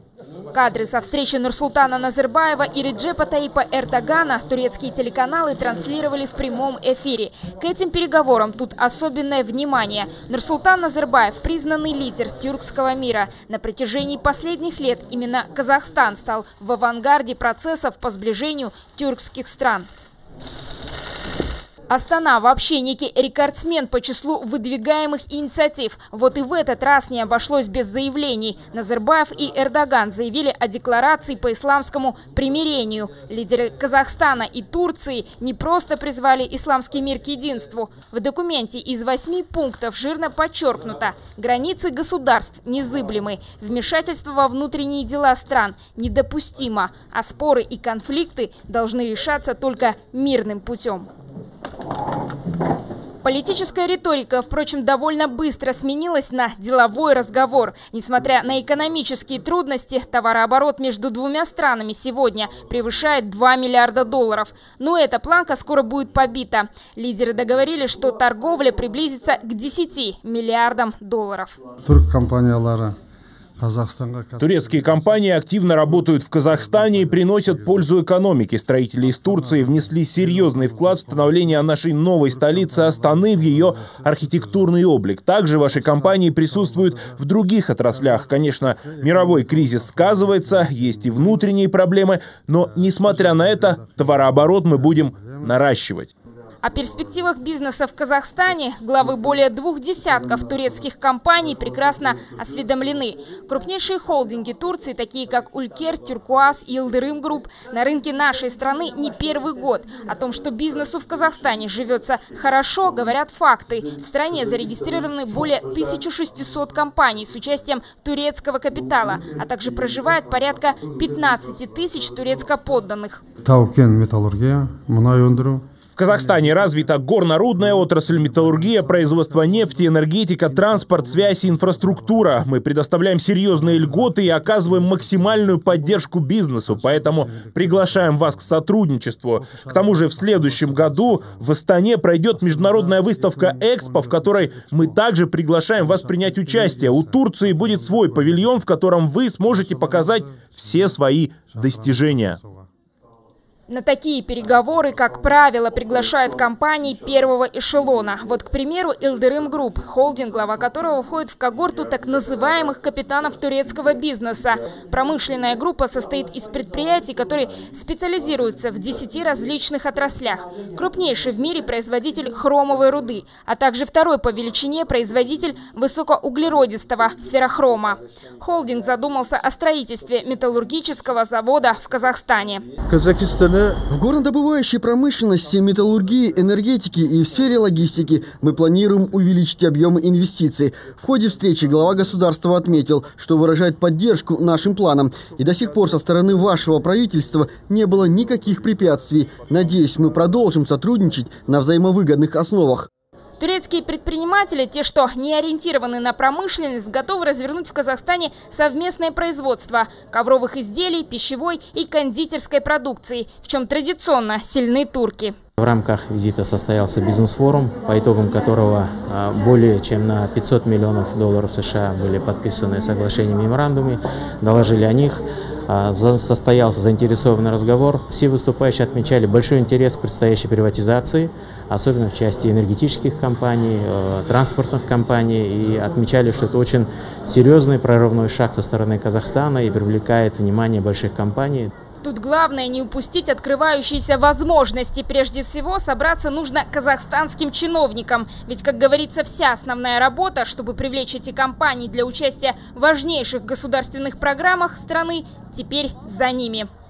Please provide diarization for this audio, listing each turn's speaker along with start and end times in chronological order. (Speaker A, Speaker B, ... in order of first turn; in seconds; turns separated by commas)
Speaker A: 0.5-19.9, Speaker A: 21.9-51.1, Speaker A: 53.2-71.6, Speaker B: 71.8-73.0, Speaker B: 73.6-75.2, Speaker C: 74.4-96.1, Speaker B: 76.5-77.9, Speaker B: 79.0-81.6, Speaker B: 82.2-84.7, Speaker B: 85.7-87.2, Speaker B: 87.9-91.5, Speaker B: 92.8-95.7, Speaker A: 96.6-123.2, Speaker B: 123.4-125.6, Speaker C: 126.0-152.4, Speaker B: 127.6-132.3, Speaker B: 133.5-136.0, Speaker B: 136.6-138.6, Speaker B: 139.4-141.5, Speaker B: 142.4-145.0, Speaker B: 145.8-148.6, Speaker B: 149.5-150.4, Speaker B: 151.5-152.7, Speaker A: 153.7-182.7, Speaker D: 183.9-202.9, Speaker A: 203.4-215.3, Speaker E: 215.6-241.7, Speaker A: 242.0-256.7